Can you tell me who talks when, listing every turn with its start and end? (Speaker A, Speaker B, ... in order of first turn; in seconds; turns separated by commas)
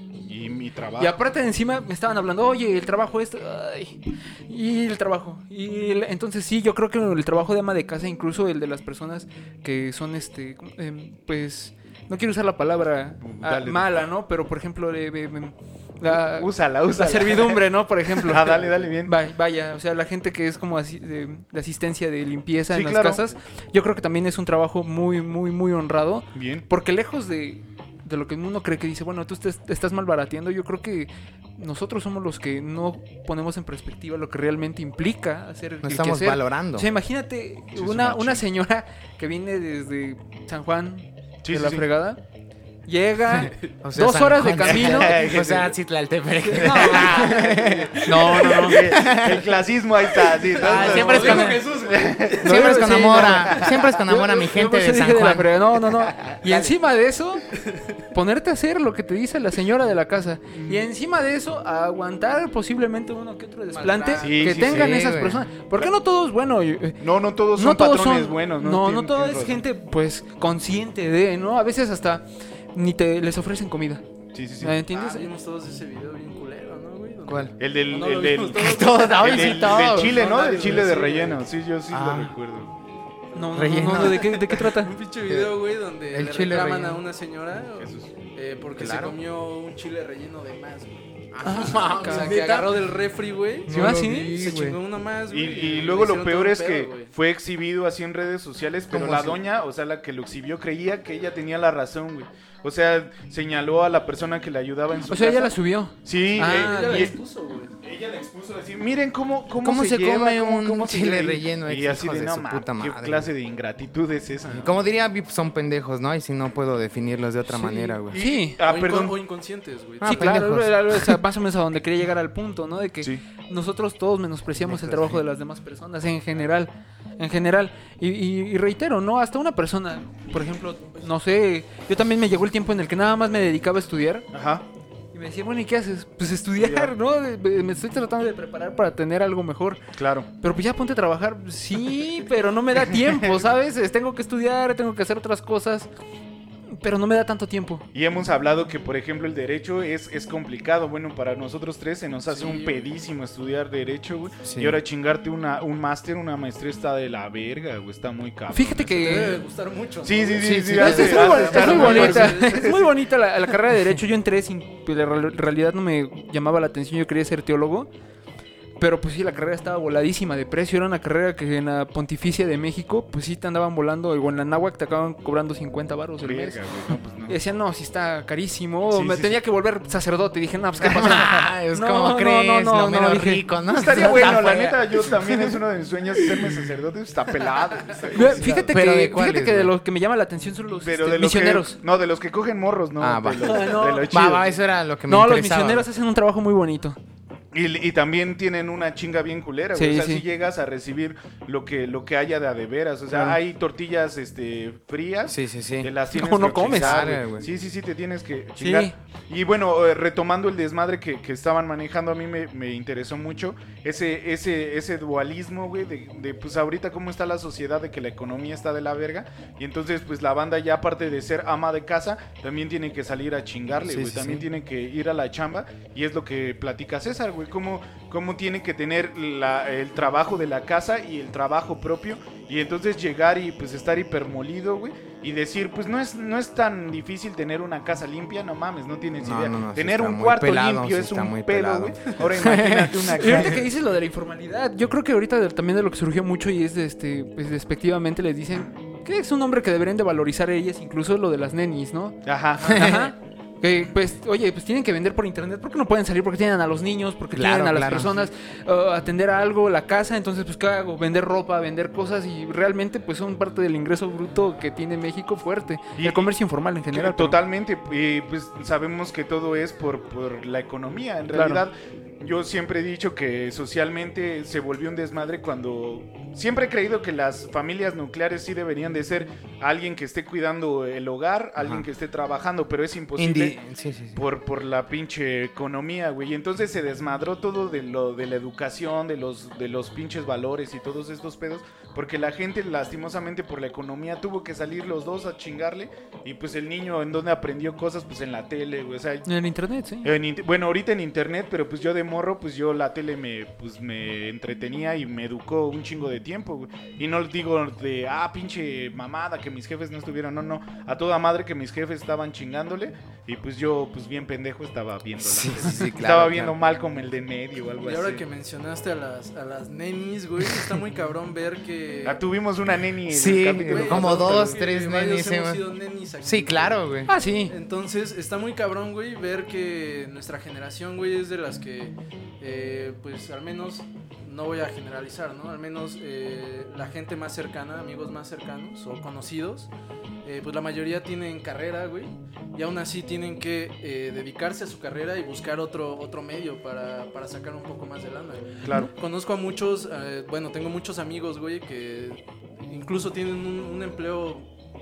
Speaker A: 0.2-1.1, Speaker B: 1.0-42.2, Speaker A: 13.2-14.0, Speaker A: 16.0-19.1, Speaker A: 22.7-23.3, Speaker A: 26.3-26.6, Speaker C: 35.8-36.9, Speaker A: 37.7-38.4, Speaker A: 41.4-41.9, Speaker B: 42.9-45.2, Speaker C: 43.3-49.5, Speaker A: 44.6-45.8, Speaker B: 46.4-47.4, Speaker A: 46.6-47.3, Speaker D: 47.0-48.0, Speaker B: 48.0-49.0, Speaker A: 48.6-52.5, Speaker D: 50.4-53.9, Speaker C: 50.6-51.7, Speaker C: 52.4-55.8, Speaker B: 52.4-57.5, Speaker D: 57.5-58.0, Speaker B: 58.1-67.0, Speaker A: 60.5-60.8, Speaker D: 63.7-64.6, Speaker A: 64.2-65.1, Speaker C: 64.5-65.5, Speaker A: 67.0-69.6, Speaker B: 67.5-74.0, Speaker A: 74.3-74.8, Speaker B: 74.6-75.3, Speaker D: 74.9-81.5, Speaker C: 77.3-77.5, Speaker A: 77.6-82.7, Speaker C: 78.6-80.3, Speaker C: 81.9-82.3, Speaker B: 83.3-84.9, Speaker C: 83.5-84.3, Speaker D: 83.8-97.1, Speaker C: 86.1-87.0, Speaker A: 87.8-88.1, Speaker C: 88.8-89.2, Speaker C: 91.3-92.8, Speaker B: 91.4-92.4, Speaker C: 93.7-94.8, Speaker B: 93.7-94.4, Speaker A: 95.3-107.1, Speaker C: 98.9-99.4, Speaker B: 105.1-107.2, Speaker D: 106.3-107.7, Speaker A: 107.8-114.7, Speaker C: 109.6-113.3, Speaker C: 114.5-118.2, Speaker B: 117.5-118.6, Speaker A: 118.1-119.2, Speaker D: 118.6-120.4, Speaker C: 120.0-121.2, Speaker B: 120.0-134.3, Speaker A: 124.7-125.2, Speaker A: 134.3-134.6, Speaker B: 135.1-139.8, Speaker A: 136.5-136.9, Speaker A: 140.0-140.3, Speaker B: 140.4-145.9, Speaker B: 146.7-147.8, Speaker A: 147.9-159.3, Speaker D: 152.3-152.9, Speaker C: 154.4-154.8, Speaker B: 158.5-159.4, Speaker D: 158.9-162.9, Speaker A: 160.0-162.8, Speaker C: 160.4-162.1, Speaker B: 160.7-167.9, Speaker B: 168.8-176.6, Speaker A: 176.2-177.4, Speaker B: 177.3-183.5, Speaker A: 178.9-179.4, Speaker C: 180.8-185.6, Speaker A: 183.7-188.7, Speaker C: 186.2-186.7, Speaker D: 187.6-188.1, Speaker B: 188.1-191.8, Speaker C: 188.3-189.7, Speaker A: 190.8-194.6, Speaker C: 193.0-195.9, Speaker B: 193.4-194.2, Speaker B: 195.1-197.0, Speaker A: 197.5-243.7, Speaker B: 199.7-200.2, Speaker C: 203.1-203.4, Speaker C: 205.3-207.5, Speaker B: 206.1-207.1, Speaker B: 208.6-208.9, Speaker C: 223.8-224.4, Speaker C: 239.2-243.6, Speaker B: 243.1-267.4, Speaker A: 252.2-253.0, Speaker C: 252.6-253.1, Speaker C: 257.3-258.1, Speaker A: 266.0-266.3, Speaker A: 266.9-283.6, Speaker B: 271.3-271.6, Speaker C: 281.6-281.9, Speaker C: 283.2-284.2, Speaker A: 284.1-299.3, Speaker B: 299.2-300.1, Speaker A: 300.0-318.2, Speaker C: 315.2-316.6, Speaker D: 317.8-322.2, Speaker A: 322.0-324.6, Speaker C: 323.1-325.6, Speaker D: 323.6-339.7, Speaker C: 326.2-327.1, Speaker B: 327.1-327.5, Speaker D: 340.2-354.5, Speaker A: 348.6-348.9